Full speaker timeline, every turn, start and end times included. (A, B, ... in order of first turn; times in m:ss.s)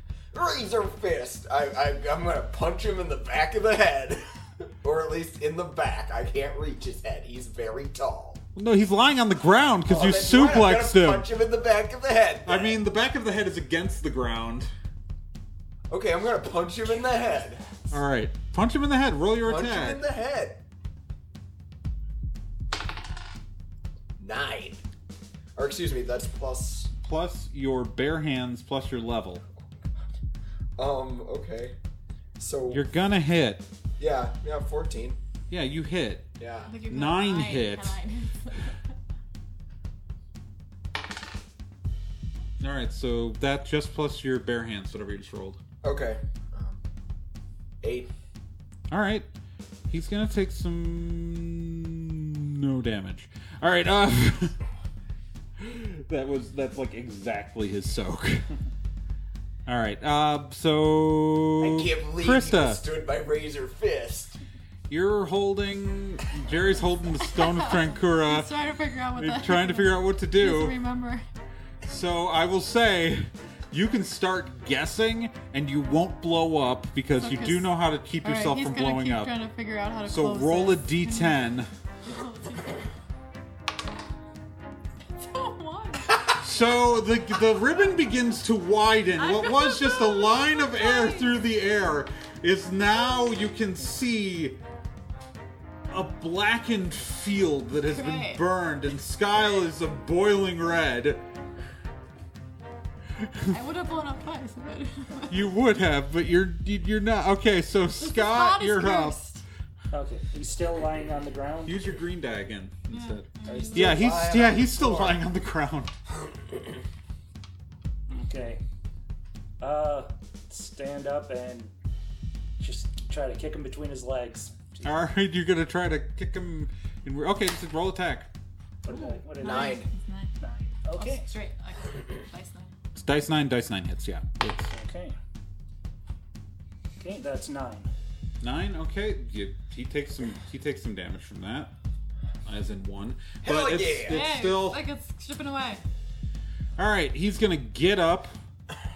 0:00.3-0:04.3 A
0:04.8-0:08.4 A
0:08.6-0:11.3 B
0:09.9-0:12.8 A
0:12.4-0:14.7 B
0:15.9-0:17.8 A
0:17.9-0:20.0 B
0:19.4-0:20.6 A
0:24.2-0:24.8 A
0:25.6-0:26.9 A
0:27.0-0:29.4 B
0:30.8-0:31.7 A
0:32.4-0:32.8 A
0:32.7-0:33.6 B
0:34.0-0:35.2 A
0:35.5-0:36.3 B
0:36.4-0:36.8 A
0:36.7-0:38.8 C
0:36.9-0:38.0 B
0:42.6-0:45.6 B
0:45.8-0:46.8 A
0:47.8-0:48.1 A
0:48.9-0:49.3 B
0:49.9-0:54.6 B
0:55.6-0:58.5 B
0:59.7-1:02.8 B
1:01.6-1:04.4 A
1:04.9-1:08.5 B
1:07.2-1:11.2 C
1:09.1-1:10.8 B
1:11.8-1:19.3 B
1:17.2-1:21.5 C
1:20.0-1:21.7 B
1:22.0-1:22.8 C
1:25.1-1:26.2 C
1:26.4-1:34.6 B
1:29.2-1:31.3 C
1:35.9-1:41.2 B
1:37.9-1:38.4 C
1:43.2-1:43.5 B
1:43.5-1:45.4 C
1:45.3-1:49.2 B
1:48.0-1:49.4 C
1:49.9-1:51.9 D
1:51.7-1:55.9 B
1:52.9-1:54.1 C
1:53.4-1:55.2 A
1:58.1-1:58.6 D
1:59.6-2:01.7 D
2:02.6-2:05.1 D
2:04.8-2:08.3 B
2:08.8-2:09.8 D
2:09.4-2:10.3 C
2:09.4-2:09.9 A
2:10.4-2:11.3 D
2:10.9-2:12.7 C
2:13.0-2:14.7 B
2:14.7-2:15.2 D
2:17.0-2:17.9 D
2:18.4-2:21.7 B
2:22.4-2:24.8 B
2:23.4-2:24.2 A
2:24.0-2:25.8 C
2:26.8-2:28.4 B